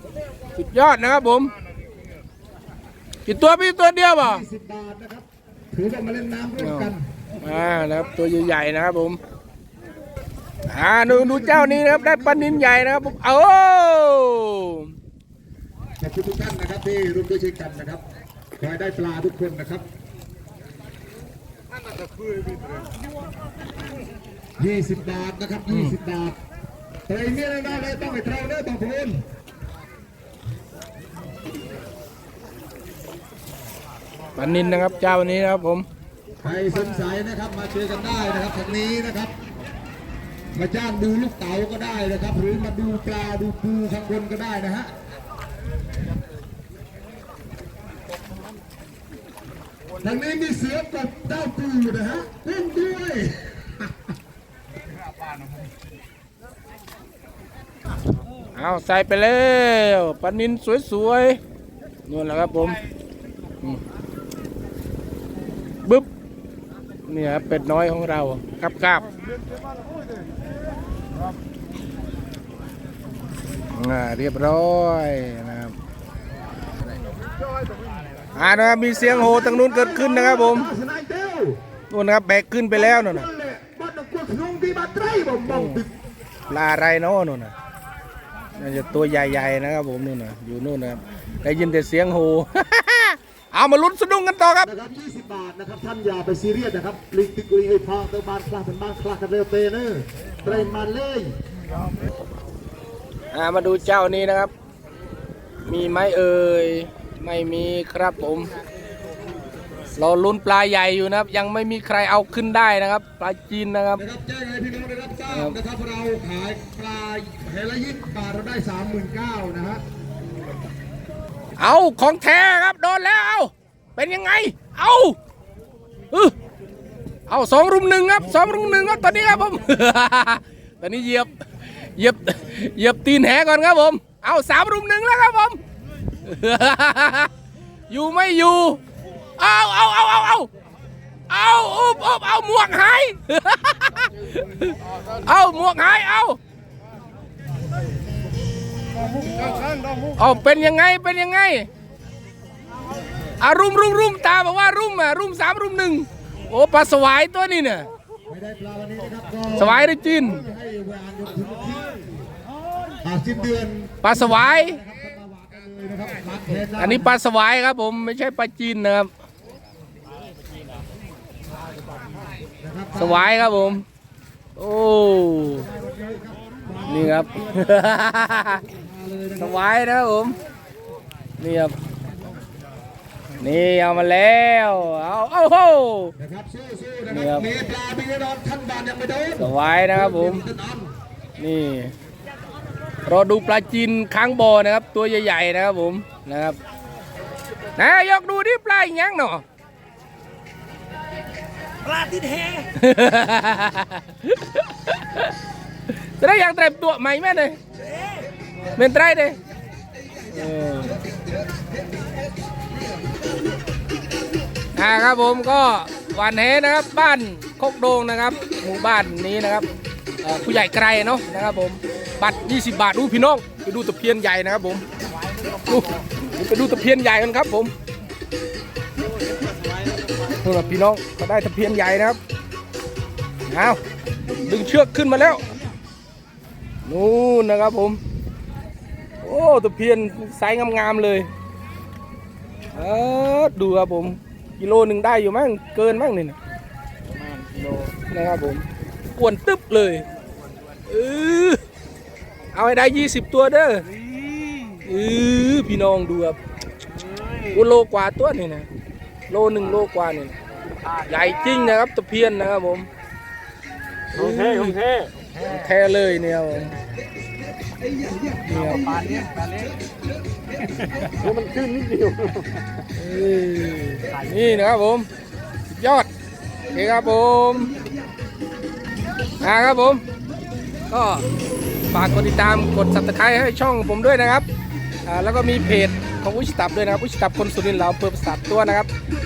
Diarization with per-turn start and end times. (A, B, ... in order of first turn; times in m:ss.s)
0:00.6-0:01.5 A
0:03.2-0:04.4 A
0:04.2-0:07.0 B
0:06.6-0:09.2 A
0:10.7-0:14.9 A
0:11.0-0:13.1 B
0:16.0-0:18.0 B
0:18.6-0:19.9 B
0:24.6-0:26.4 B
0:25.7-0:26.0 A
0:27.1-0:29.2 B
0:34.4-0:35.8 A
0:36.4-0:39.3 B
0:40.5-0:44.9 B
0:50.0-0:53.9 B
0:58.5-1:01.4 A
1:02.1-1:02.8 A
1:07.1-1:09.0 A
1:13.7-1:15.8 A
1:18.3-1:20.7 A
1:19.1-1:21.6 B
1:21.9-1:23.3 A
1:22.7-1:25.9 B
1:25.5-1:25.8 A
1:26.5-1:27.5 A
1:28.6-1:34.7 A
1:34.6-1:41.4 B
1:40.4-1:40.8 A
1:43.3-1:44.5 A
1:45.6-1:48.5 A
1:49.9-1:54.0 A
1:54.0-1:59.8 B
1:55.3-1:55.6 A
2:01.6-2:05.2 A
2:07.3-2:11.3 A
2:12.0-2:15.6 A
2:16.2-2:17.3 A
2:17.9-2:18.8 A
2:19.4-2:20.5 A
2:21.3-2:26.4 A
2:30.2-2:31.7 A
2:33.4-2:37.9 A
2:38.3-2:42.1 B
2:39.6-2:40.4 A
2:43.0-2:47.1 B
2:44.0-2:44.8 A
2:46.8-2:49.1 A
2:52.6-2:53.4 B
2:52.9-2:53.8 A
2:54.6-2:55.7 A
2:55.7-2:57.6 B
2:56.8-2:58.7 A
2:58.7-2:59.6 B
2:59.4-3:00.4 A
3:01.4-3:01.7 A
3:03.4-3:06.1 A
3:06.2-3:10.9 B
3:07.1-3:07.5 A
3:09.4-3:10.4 A
3:11.4-3:11.9 A
3:13.0-3:16.6 A
3:17.8-3:19.4 A
3:22.7-3:25.3 A
3:26.2-3:27.6 A
3:28.8-3:29.4 A
3:30.3-3:31.0 A
3:34.7-3:39.7 A
3:40.2-3:44.8 A
3:45.6-3:47.7 A
3:50.3-3:52.2 A
3:53.5-3:53.8 A
3:54.4-3:55.4 A
3:56.8-3:58.0 A
3:59.2-4:01.3 A
4:02.7-4:06.4 A
4:07.2-4:07.9 C
4:08.1-4:10.0 A
4:10.9-4:11.6 A
4:12.5-4:13.8 A
4:14.8-4:16.4 A
4:17.5-4:18.7 A
4:19.3-4:20.3 A
4:21.0-4:22.9 A
4:24.1-4:24.7 A
4:24.1-4:25.1 C
4:25.3-4:26.7 A
4:28.2-4:29.7 C
4:28.4-4:29.0 A
4:30.6-4:32.6 C
4:33.0-4:35.1 A
4:35.7-4:36.1 A
4:36.7-4:37.7 A
4:39.4-4:40.0 A
4:40.9-4:41.2 A
4:41.9-4:44.4 A
4:45.0-4:48.9 A